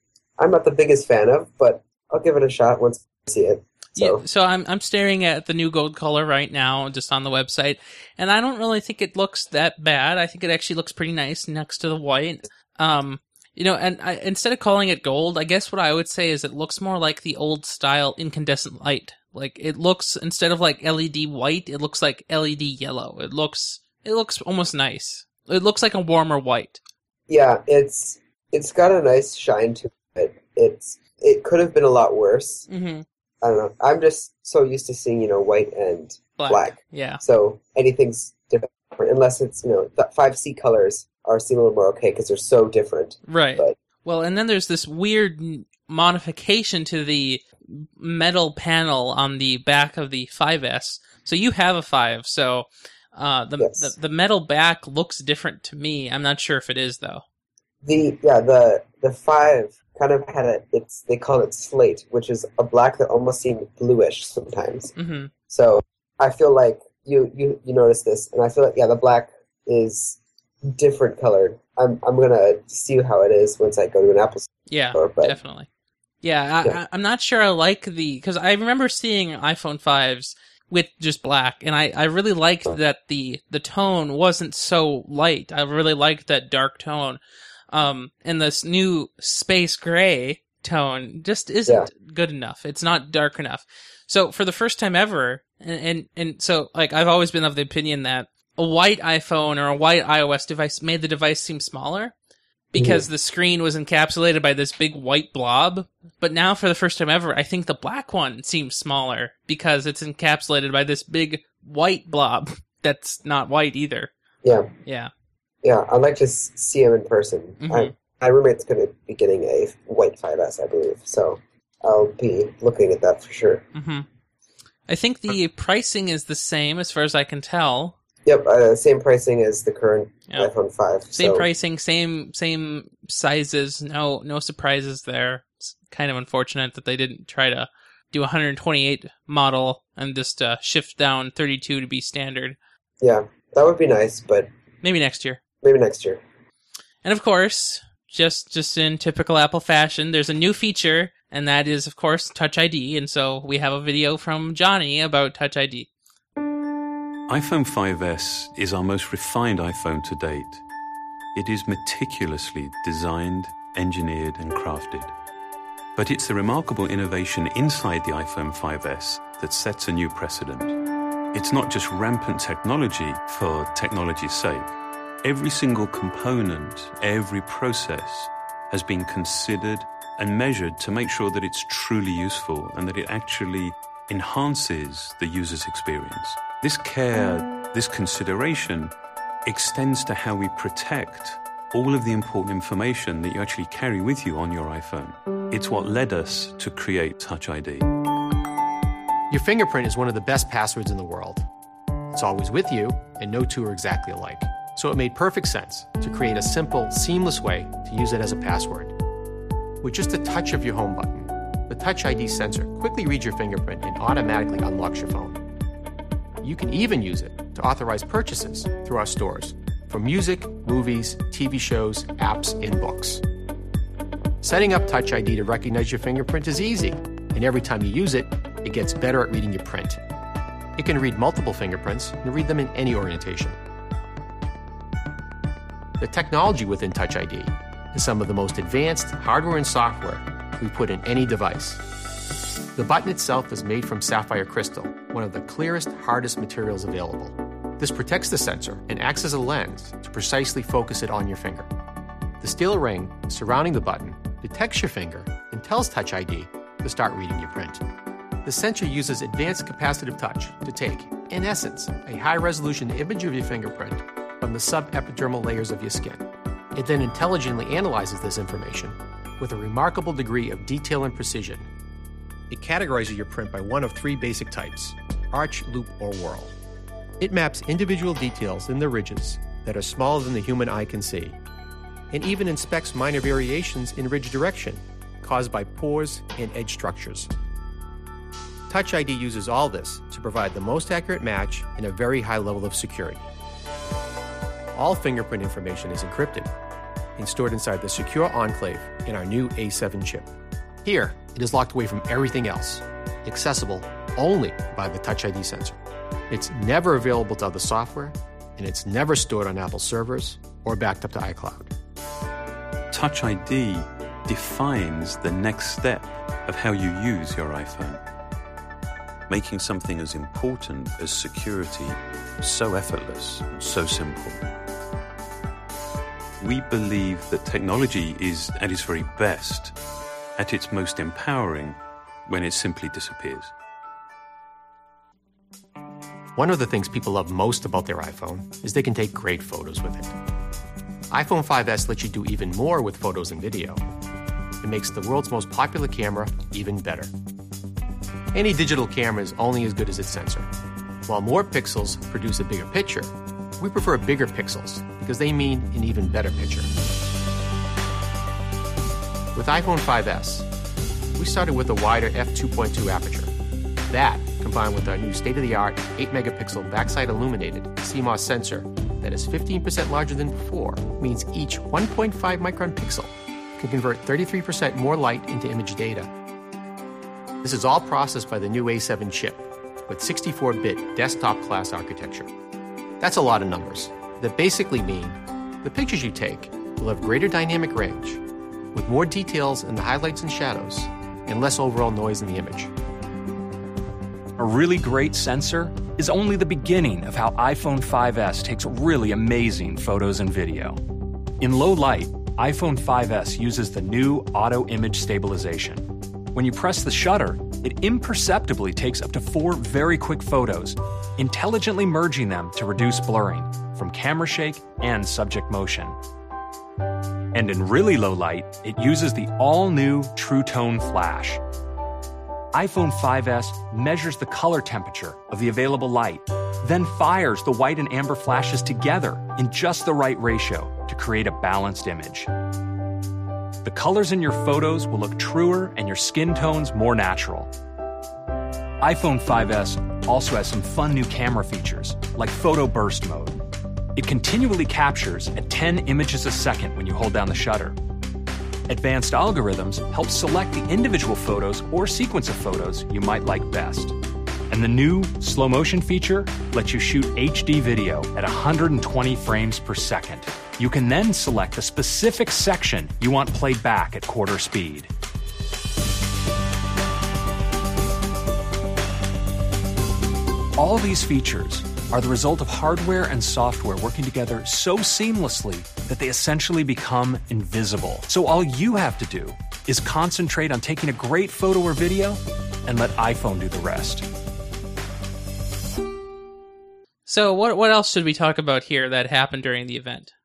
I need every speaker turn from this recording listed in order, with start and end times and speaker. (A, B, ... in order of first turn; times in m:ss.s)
0:00.4-0:04.2 A
0:04.0-0:26.8 B
0:27.3-0:32.7 A
0:32.7-0:33.0 B
0:33.4-0:43.8 A
0:36.4-0:37.2 B
0:43.3-0:57.2 B
0:53.6-0:53.9 A
0:57.8-1:04.9 A
1:05.0-1:05.3 B
1:05.5-1:15.4 A
1:14.7-1:15.7 B
1:16.2-1:27.2 B
1:27.7-1:42.1 B
1:42.7-1:54.1 B
1:42.8-1:43.1 A
1:54.4-1:54.7 A
1:54.8-1:55.1 B
1:55.6-2:03.6 A
1:57.6-1:57.9 B
2:03.7-2:04.1 B
2:04.9-2:08.0 B
2:08.2-2:11.5 A
2:11.1-2:22.6 B
2:23.0-2:24.5 A
2:24.8-2:25.4 B
2:25.6-2:26.2 A
2:27.0-2:35.9 B
2:37.3-2:40.6 C
2:41.4-2:45.1 C
2:46.0-2:50.8 C
2:51.3-3:08.9 C
3:09.4-3:17.9 C
3:19.3-3:21.5 D
3:22.1-3:28.9 D
3:29.8-3:35.4 D
3:36.4-3:43.2 D
3:44.4-3:50.0 D
3:50.8-3:53.6 D
3:56.0-4:01.8 D
4:02.8-4:11.7 D
4:12.4-4:17.8 D
4:18.4-4:31.7 D
4:32.5-4:36.5 D
4:37.2-4:41.4 D
4:42.1-4:47.3 D
4:48.7-4:53.2 D
4:54.7-4:56.5 D
4:57.2-5:00.3 D
5:00.8-5:05.8 D
5:06.3-5:11.7 D
5:12.9-5:18.0 C
5:19.3-5:24.4 C
5:26.4-5:29.7 C
5:30.4-5:33.5 C
5:36.4-5:40.2 D
5:41.1-5:43.8 D
5:44.6-5:47.1 D
5:48.3-5:50.5 D
5:51.1-5:56.7 D
5:59.4-6:00.5 D
6:01.2-6:03.3 D
6:03.9-6:16.1 D
6:17.4-6:22.3 D
6:23.0-6:28.2 D
6:28.7-6:32.7 D
6:34.4-6:40.8 E
6:41.4-6:56.0 E
6:57.3-7:01.4 E
7:02.5-7:12.3 E
7:13.6-7:17.5 E
7:18.8-7:23.4 E
7:24.0-7:27.8 E
7:28.7-7:34.0 E
7:34.5-7:44.9 E
7:50.6-8:04.1 E
8:07.1-8:10.1 B